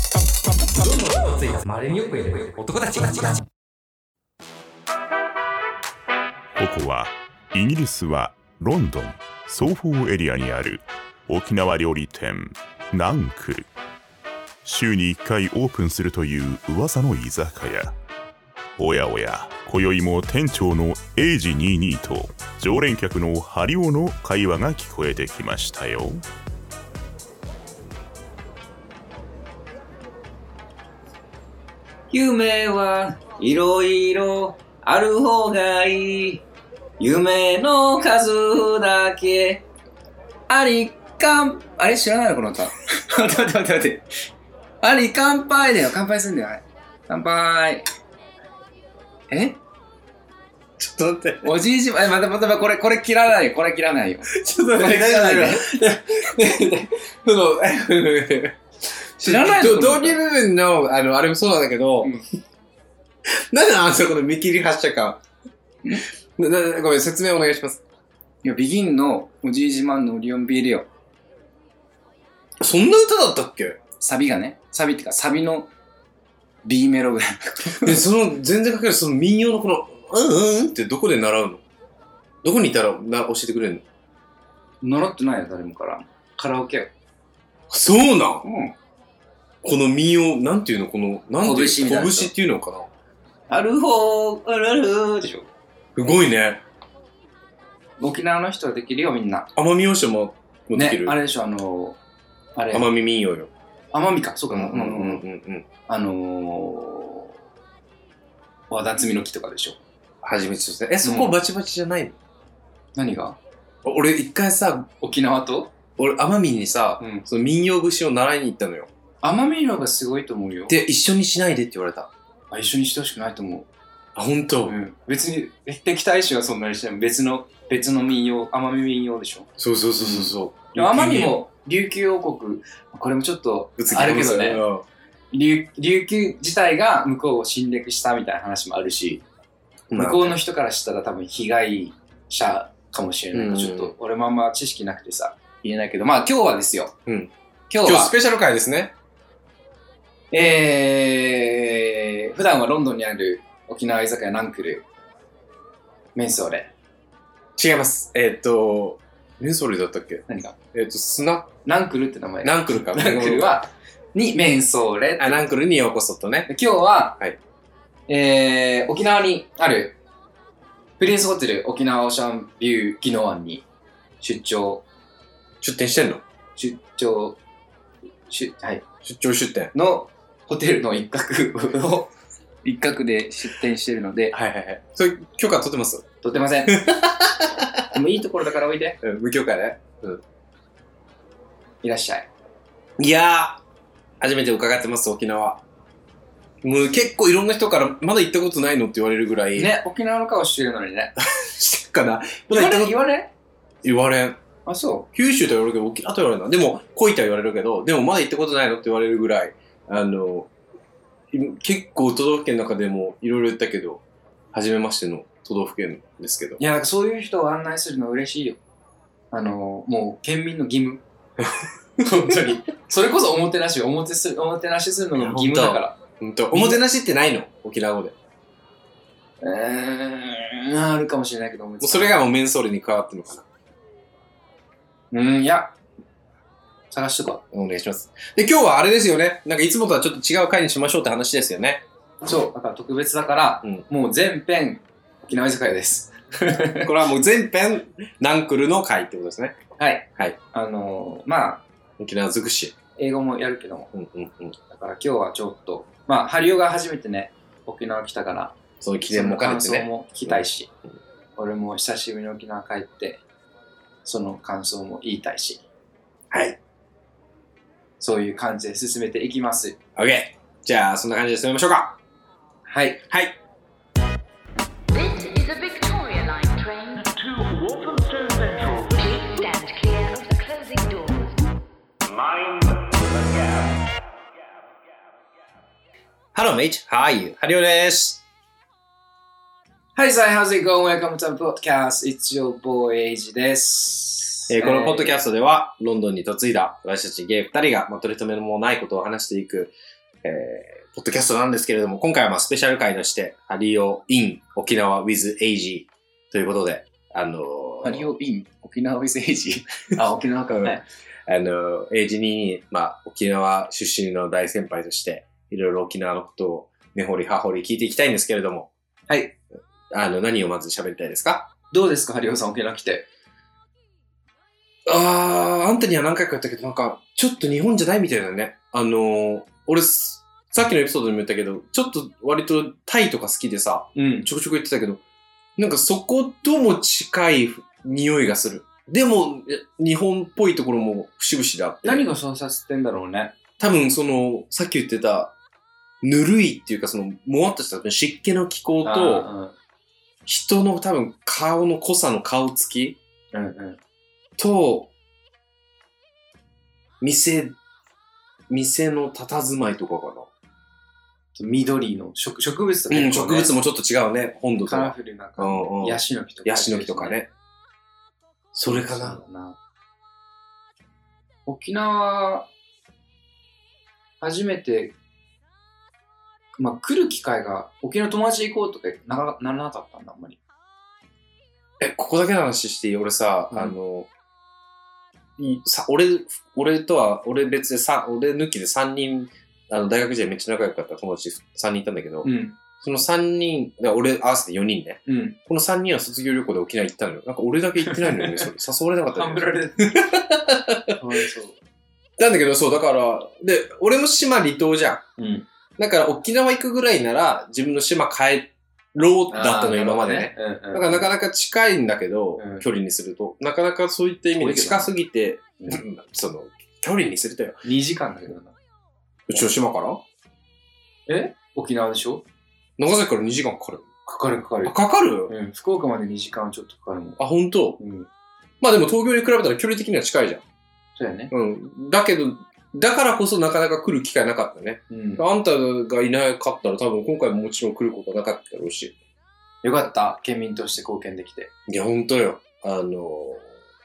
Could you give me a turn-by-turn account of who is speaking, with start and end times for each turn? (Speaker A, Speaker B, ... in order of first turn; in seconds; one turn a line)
Speaker A: 0.6-3.5
Speaker B: 6.6-13.7
Speaker B: 14.6-17.9
Speaker B: 18.8-26.2
Speaker C: 32.1-36.4
Speaker C: 37.0-39.6
Speaker C: 40.5-44.1
Speaker C: 44.8-47.8
Speaker C: 49.3-49.6
Speaker D: 50.8-51.5
Speaker C: 51.4-55.7
Speaker D: 54.3-58.6
Speaker D: 59.2-62.1
Speaker C: 59.2-60.2
Speaker D: 63.3-65.2
Speaker D: 66.4-67.8
Speaker C: 68.4-70.9
Speaker D: 72.6-73.8
Speaker C: 74.0-75.7
Speaker C: 76.6-78.0
Speaker D: 77.8-81.6
Speaker D: 82.4-83.8
Speaker C: 84.8-86.9
Speaker D: 87.7-88.4
Speaker C: 88.4-88.7
Speaker D: 89.6-92.9
Speaker C: 91.4-92.3
Speaker C: 93.5-95.5
Speaker D: 95.9-96.6
Speaker C: 98.0-99.5
Speaker D: 99.5-101.2
Speaker C: 100.7-102.0
Speaker C: 102.6-102.9
Speaker D: 102.7-103.5
Speaker C: 103.9-105.2
Speaker D: 104.5-105.7
Speaker C: 105.9-107.3
Speaker C: 108.7-109.8
Speaker D: 110.2-112.2
Speaker C: 111.0-111.3
Speaker C: 112.9-113.4
Speaker D: 113.8-114.9
Speaker C: 115.0-115.7
Speaker D: 116.0-118.9
Speaker C: 117.0-117.2
Speaker C: 119.2-120.8
Speaker D: 120.7-122.1
Speaker C: 122.5-123.7
Speaker D: 124.2-124.8
Speaker C: 124.7-134.6
Speaker D: 129.6-131.3
Speaker D: 133.8-134.8
Speaker C: 135.3-139.2
Speaker D: 139.9-140.3
Speaker C: 139.9-146.9
Speaker D: 143.3-143.9
Speaker D: 147.1-147.3
Speaker C: 147.7-148.1
Speaker D: 147.8-148.9
Speaker C: 150.3-154.8
Speaker C: 156.1-156.7
Speaker D: 157.6-161.5
Speaker C: 160.3-160.6
Speaker C: 161.6-165.5
Speaker D: 162.4-163.5
Speaker D: 165.2-166.5
Speaker C: 166.5-167.2
Speaker C: 168.1-170.0
Speaker C: 171.0-173.6
Speaker C: 174.2-174.8
Speaker D: 175.6-176.2
Speaker C: 176.6-177.4
Speaker C: 178.3-178.8
Speaker D: 179.0-179.7
Speaker C: 179.7-182.1
Speaker C: 182.6-184.3
Speaker D: 184.3-186.1
Speaker C: 186.2-186.8
Speaker D: 186.7-187.9
Speaker C: 187.9-189.0
Speaker D: 189.0-190.2
Speaker C: 191.8-192.3
Speaker D: 193.0-193.6
Speaker D: 194.2-195.6
Speaker D: 196.6-199.7
Speaker C: 199.5-201.1
Speaker D: 201.2-202.9
Speaker C: 202.5-203.3
Speaker D: 203.8-204.4
Speaker C: 204.6-205.1
Speaker D: 205.1-210.5
Speaker D: 211.3-216.6
Speaker C: 216.6-218.6
Speaker C: 219.3-221.0
Speaker C: 222.0-226.0
Speaker D: 225.1-228.1
Speaker C: 226.5-226.8
Speaker C: 229.4-232.1
Speaker D: 231.8-233.4
Speaker C: 235.1-235.8
Speaker C: 236.9-237.4
Speaker D: 237.5-241.8
Speaker C: 242.2-246.9
Speaker D: 246.8-249.6
Speaker C: 249.8-251.6
Speaker D: 252.0-252.8
Speaker C: 252.9-253.9
Speaker D: 253.9-254.6
Speaker C: 254.7-258.6
Speaker D: 258.8-260.9
Speaker C: 259.1-260.7
Speaker C: 261.4-263.2
Speaker C: 264.0-265.6
Speaker D: 266.3-266.6
Speaker C: 268.0-269.8
Speaker D: 269.9-272.0
Speaker C: 272.7-273.0
Speaker D: 273.1-273.4
Speaker E: 274.9-277.7
Speaker E: 278.2-281.4
Speaker D: 286.3-288.2
Speaker C: 289.9-295.2
Speaker D: 294.5-308.1
Speaker C: 307.8-310.8
Speaker D: 310.5-318.7
Speaker C: 319.1-319.4
Speaker D: 319.9-321.5
Speaker C: 321.7-323.1
Speaker D: 324.9-335.0
Speaker C: 333.9-334.3
Speaker D: 335.6-342.0
Speaker C: 341.8-343.4
Speaker D: 343.6-345.3
Speaker D: 346.0-349.3
Speaker C: 348.8-349.5
Speaker D: 350.2-353.0
Speaker C: 353.3-353.8
Speaker D: 354.4-354.9
Speaker D: 357.0-357.6
Speaker D: 358.5-360.3
Speaker C: 361.3-363.5
Speaker D: 362.9-367.3
Speaker C: 364.6-367.2
Speaker D: 368.5-369.2
Speaker C: 368.6-369.6
Speaker C: 371.4-372.5
Speaker C: 374.2-374.9
Speaker C: 376.6-380.4
Speaker D: 381.8-384.1
Speaker D: 385.4-392.3
Speaker C: 392.2-392.6
Speaker D: 392.8-400.9
Speaker C: 395.1-395.4
Speaker C: 397.9-398.5
Speaker C: 399.1-400.0
Speaker C: 401.0-401.6
Speaker D: 402.2-405.0
Speaker C: 405.2-405.4
Speaker D: 405.8-417.6
Speaker C: 409.3-411.1
Speaker C: 412.4-412.6
Speaker C: 414.4-414.9
Speaker C: 417.6-418.5
Speaker D: 419.3-420.0
Speaker C: 421.1-422.2
Speaker D: 422.8-423.9
Speaker C: 424.1-424.8
Speaker D: 424.6-425.3
Speaker C: 425.3-427.2
Speaker D: 427.2-427.8
Speaker C: 427.8-428.1
Speaker D: 428.6-430.4
Speaker C: 430.9-431.3
Speaker D: 431.3-438.9
Speaker C: 434.9-435.2
Speaker C: 439.6-441.5
Speaker D: 441.7-443.5